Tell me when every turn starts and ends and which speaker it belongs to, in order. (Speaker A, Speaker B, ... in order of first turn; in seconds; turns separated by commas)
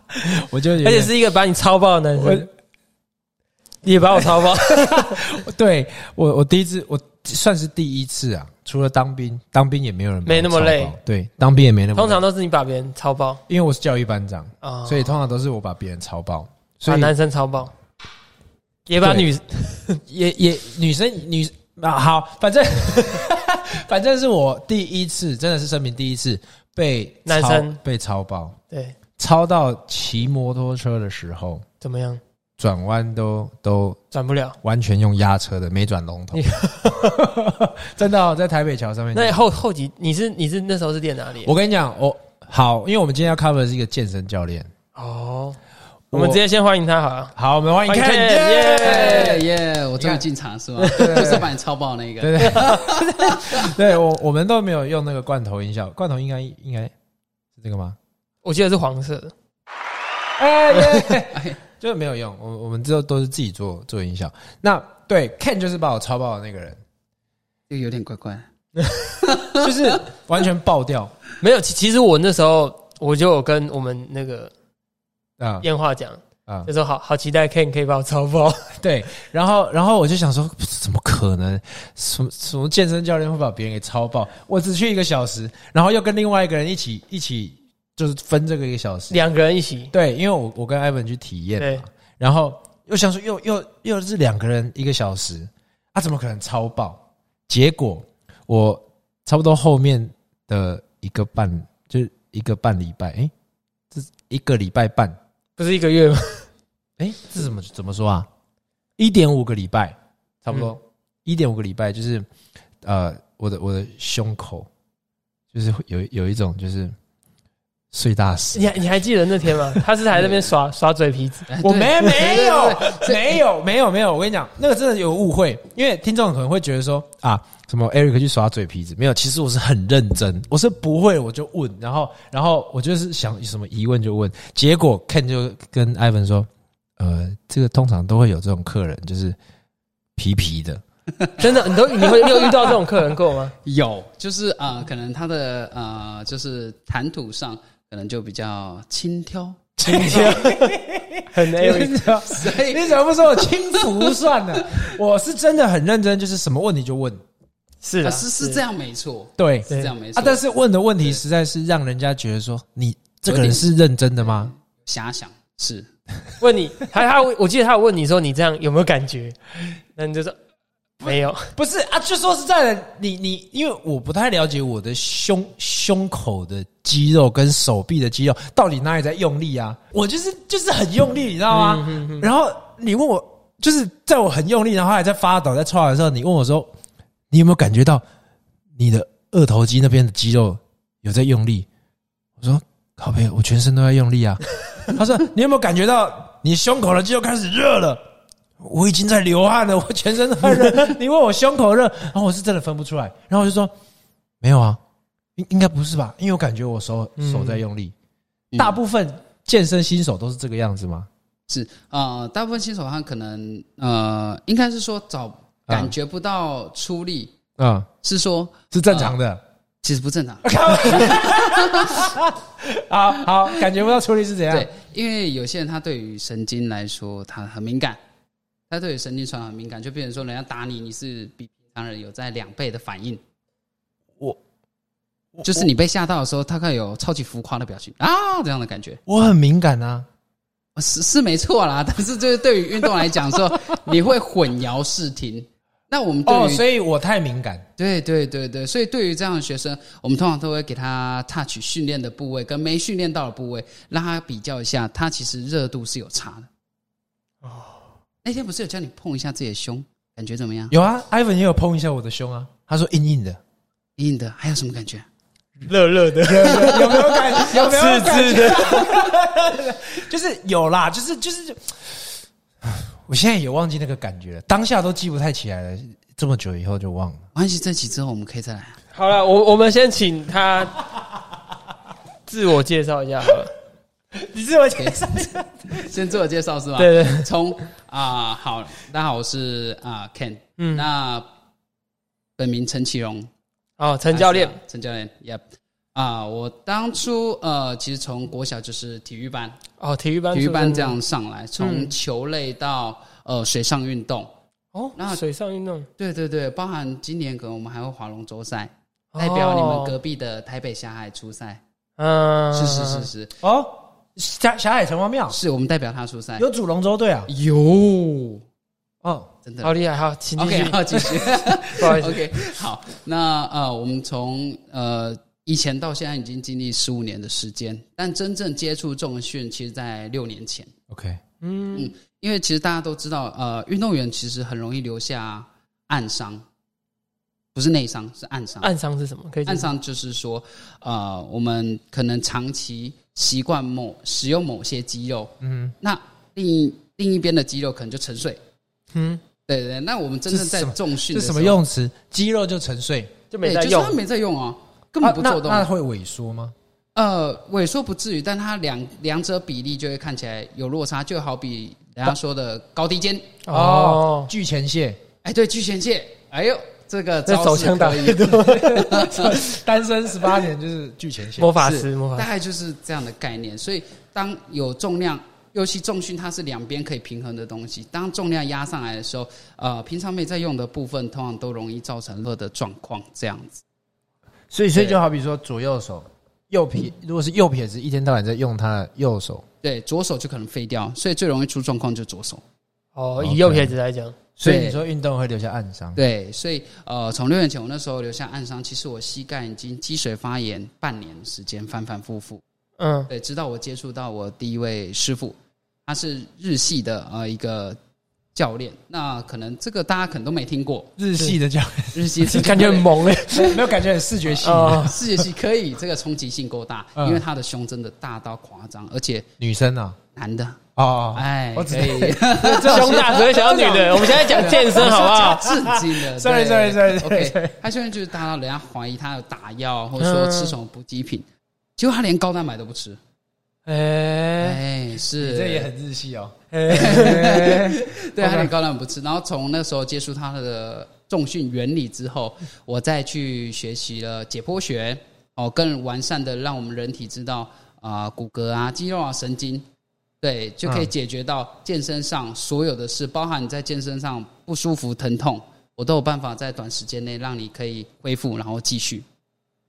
Speaker A: 0.2-1.1, Speaker B: 0.8-2.5, Speaker A: 2.2-2.5, Speaker B: 3.8-5.3, Speaker A: 4.7-12.2, Speaker B: 10.2-10.9, Speaker B: 11.9-13.4, Speaker A: 13.5-17.1, Speaker B: 14.6-15.1, Speaker B: 16.9-17.7, Speaker B: 18.9-20.0, Speaker A: 19.0-19.3, Speaker A: 20.1-28.6, Speaker B: 27.3-27.8, Speaker B: 28.7-29.0, Speaker A: 29.2-31.6, Speaker B: 31.8-32.2, Speaker A: 32.6-34.0, Speaker B: 34.1-34.6, Speaker A: 34.6-39.5, Speaker B: 36.3-37.2, Speaker B: 39.1-41.5, Speaker A: 41.4-44.7, Speaker B: 45.0-45.6, Speaker A: 46.1-46.4, Speaker B: 46.1-47.4, Speaker A: 47.4-49.4, Speaker B: 47.9-49.4, Speaker C: 48.8-53.7, Speaker B: 50.8-51.4, Speaker A: 50.9-51.5, Speaker A: 52.2-56.9, Speaker A: 57.6-58.0, Speaker B: 58.4-59.3, Speaker A: 60.4-66.8, Speaker B: 60.8-61.1, Speaker C: 67.7-68.5, Speaker B: 68.8-69.1, Speaker C: 69.2-69.7, Speaker A: 69.5-71.1, Speaker B: 71.4-74.5, Speaker A: 75.4-75.7, Speaker B: 75.6-78.8, Speaker A: 78.8-89.2, Speaker B: 89.1-89.9, Speaker A: 89.9-103.3, Speaker B: 91.6-91.8, Speaker A: 103.9-105.2, Speaker B: 105.6-106.5, Speaker A: 107.0-108.3, Speaker A: 109.0-112.3, Speaker A: 112.8-114.7, Speaker A: 115.5-117.0, Speaker A: 117.9-119.8, Speaker B: 118.5-121.5, Speaker C: 120.1-120.5, Speaker C: 121.5-123.4, Speaker A: 121.6-139.4, Speaker A: 140.2-140.8, Speaker C: 141.2-142.8, Speaker B: 141.4-143.5, Speaker C: 143.6-149.7, Speaker A: 149.8-157.2, Speaker B: 149.9-150.8, Speaker B: 151.3-152.0, Speaker C: 152.0-154.9, Speaker B: 157.8-158.6, Speaker C: 158.0-160.4, Speaker A: 159.4-164.5, Speaker C: 163.3-163.7, Speaker C: 164.2-165.9, Speaker B: 166.4-170.4, Speaker B: 171.0-171.5, Speaker A: 171.0-186.7, Speaker B: 181.5-182.3, Speaker A: 187.3-188.0, Speaker A: 188.8-191.7, Speaker A: 192.4-198.0, Speaker A: 198.6-203.7, Speaker A: 204.4-204.8, Speaker A: 205.4-207.9, Speaker B: 207.2-207.6, Speaker A: 208.6-211.1, Speaker C: 211.5-217.3, Speaker A: 215.7-215.9, Speaker A: 217.6-217.9, Speaker C: 218.0-219.2, Speaker A: 218.7-219.4, Speaker C: 219.8-222.2, Speaker A: 220.4-224.7, Speaker C: 224.5-228.0, Speaker C: 228.7-233.2, Speaker A: 235.4-235.7, Speaker C: 235.4-239.0, Speaker A: 239.1-240.1, Speaker C: 240.8-246.7, Speaker A: 246.3-247.7, Speaker C: 247.8-256.5, Speaker B: 257.4-257.8, Speaker C: 258.2-260.7, Speaker A: 260.7-263.4, Speaker C: 264.0-265.1, Speaker B: 265.6-268.9, Speaker A: 266.2-277.2, Speaker C: 277.4-278.8, Speaker B: 278.9-280.9, Speaker B: 282.3-283.5, Speaker A: 284.2-285.9, Speaker C: 284.8-291.3, Speaker B: 286.8-287.3, Speaker B: 290.6-290.9, Speaker C: 292.4-293.3, Speaker B: 293.8-294.6, Speaker C: 294.1-295.4, Speaker C: 295.9-299.6, Speaker B: 299.8-301.0, Speaker C: 300.3-304.3, Speaker B: 301.6-301.9, Speaker B: 304.7-305.9, Speaker C: 305.0-305.2, Speaker C: 306.0-311.6, Speaker B: 309.1-310.0, Speaker B: 312.0-313.1, Speaker C: 312.5-313.4, Speaker A: 313.4-315.4, Speaker C: 315.3-316.5, Speaker A: 316.4-317.3, Speaker C: 317.3-318.4, Speaker A: 319.0-319.3, Speaker C: 319.4-319.8, Speaker B: 319.6-320.9, Speaker C: 320.4-330.7, Speaker A: 321.4-321.8, Speaker B: 321.8-322.2, Speaker A: 330.9-331.2, Speaker B: 331.4-331.9, Speaker C: 331.7-336.4, Speaker C: 337.6-338.7, Speaker B: 338.6-339.7, Speaker C: 339.5-348.4, Speaker A: 345.4-345.7, Speaker B: 348.9-349.2, Speaker C: 349.5-351.6, Speaker A: 350.3-353.1, Speaker B: 353.3-354.0, Speaker C: 353.4-355.7, Speaker A: 355.0-356.6, Speaker C: 356.9-363.3, Speaker B: 363.5-364.3, Speaker A: 363.5-365.0, Speaker C: 365.2-369.5, Speaker B: 367.3-369.1, Speaker A: 368.5-371.5, Speaker B: 371.4-372.3, Speaker C: 371.6-383.6, Speaker A: 384.5-389.5, Speaker C: 384.7-385.0, Speaker C: 389.6-392.4, Speaker B: 392.9-394.2, Speaker A: 393.2-393.8, Speaker A: 394.4-396.0, Speaker C: 394.4-394.8, Speaker C: 396.0-402.4, Speaker B: 402.8-403.1, Speaker C: 403.1-407.8, Speaker C: 408.4-411.0, Speaker A: 411.0-412.7, Speaker C: 411.9-413.7, Speaker B: 412.2-413.6, Speaker A: 413.2-415.0, Speaker B: 414.4-415.0, Speaker C: 414.6-419.3, Speaker A: 417.0-417.2, Speaker A: 419.4-420.0, Speaker C: 420.1-420.6, Speaker A: 420.8-427.6, Speaker C: 421.1-431.3, Speaker B: 422.6-425.4, Speaker B: 430.0-430.6, Speaker C: 431.8-433.0, Speaker B: 433.7-434.6, Speaker C: 434.4-435.7, Speaker A: 435.2-438.5, Speaker B: 436.5-437.3, Speaker C: 436.7-449.7, Speaker C: 450.2-459.1